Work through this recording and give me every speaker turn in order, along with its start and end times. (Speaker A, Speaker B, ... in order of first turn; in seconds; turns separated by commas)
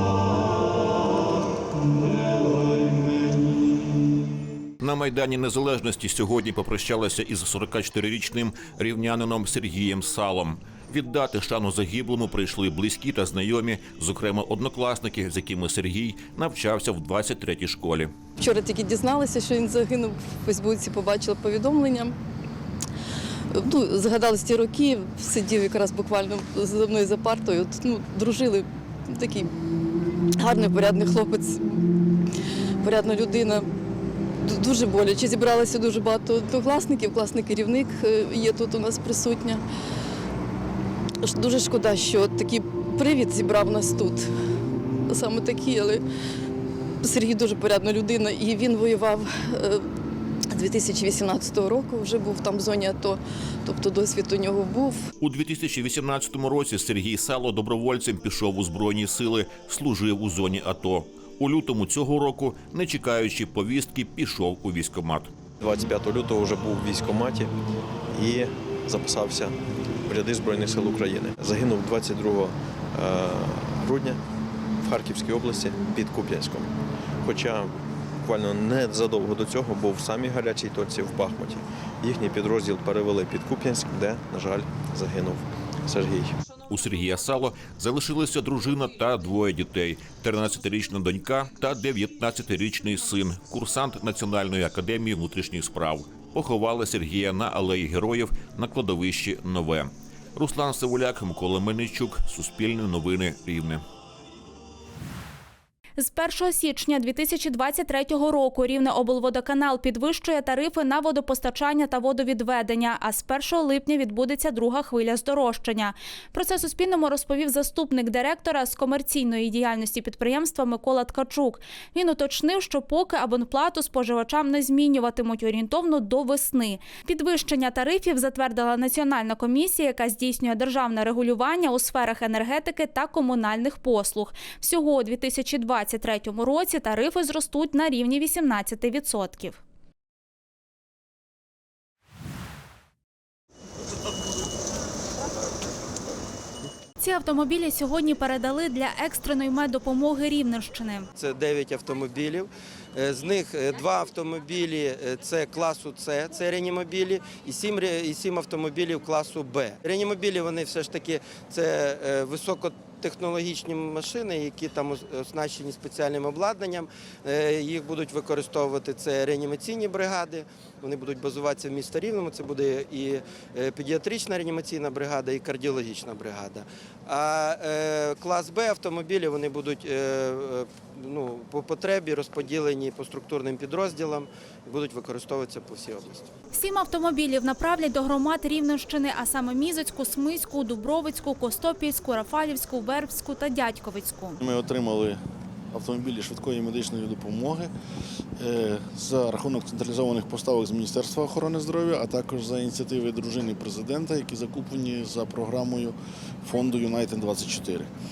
Speaker A: 4.8-18.1, Speaker B: 18.6-21.7, Speaker B: 23.7-24.7, Speaker B: 25.4-28.6, Speaker B: 30.5-31.4, Speaker B: 32.9-33.6, Speaker B: 34.6-39.6, Speaker B: 41.3-44.0, Speaker B: 45.2-46.0, Speaker B: 47.1-49.1, Speaker B: 50.7-53.1, Speaker B: 53.7-54.6, Speaker A: 55.2-65.3, Speaker C: 65.6-67.5, Speaker C: 68.1-74.2, Speaker C: 74.8-86.4, Speaker A: 86.7-103.8, Speaker D: 106.0-139.6, Speaker D: 147.0-151.1, Speaker E: 151.2-186.2, Speaker D: 186.5-194.4, Speaker F: 194.4-195.2, Speaker F: 195.7-197.7, Speaker F: 198.4-207.9